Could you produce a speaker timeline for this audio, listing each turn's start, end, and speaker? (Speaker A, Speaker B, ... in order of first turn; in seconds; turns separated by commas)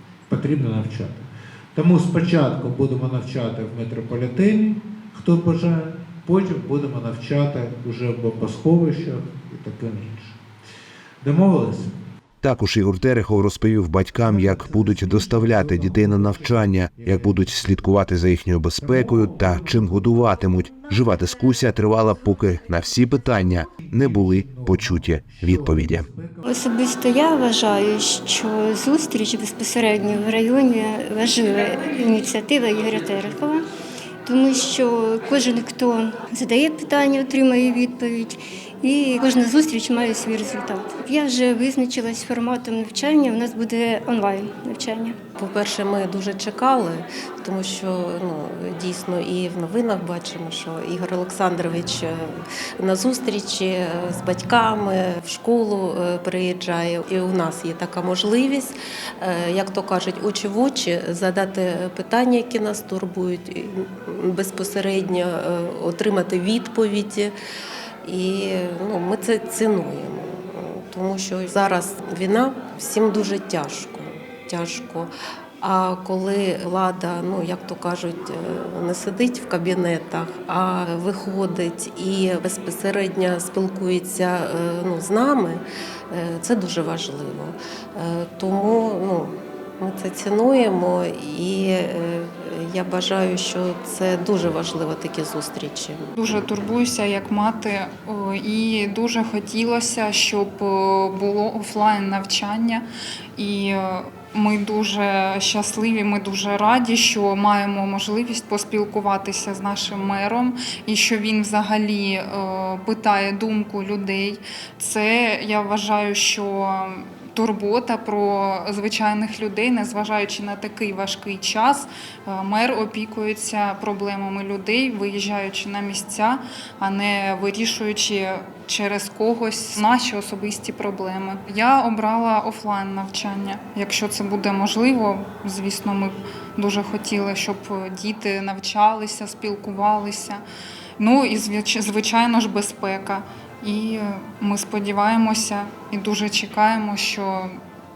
Speaker A: 0.3-1.2, Speaker A: 1.8-10.4, Speaker A: 11.2-11.9, Speaker B: 12.4-26.1, Speaker A: 14.2-18.0, Speaker A: 18.8-20.3, Speaker A: 23.7-26.5, Speaker C: 26.4-33.6, Speaker C: 34.2-45.2, Speaker D: 45.4-67.3, Speaker D: 68.0-96.1, Speaker E: 96.2-102.9, Speaker E: 103.4-140.4, Speaker E: 141.0-147.6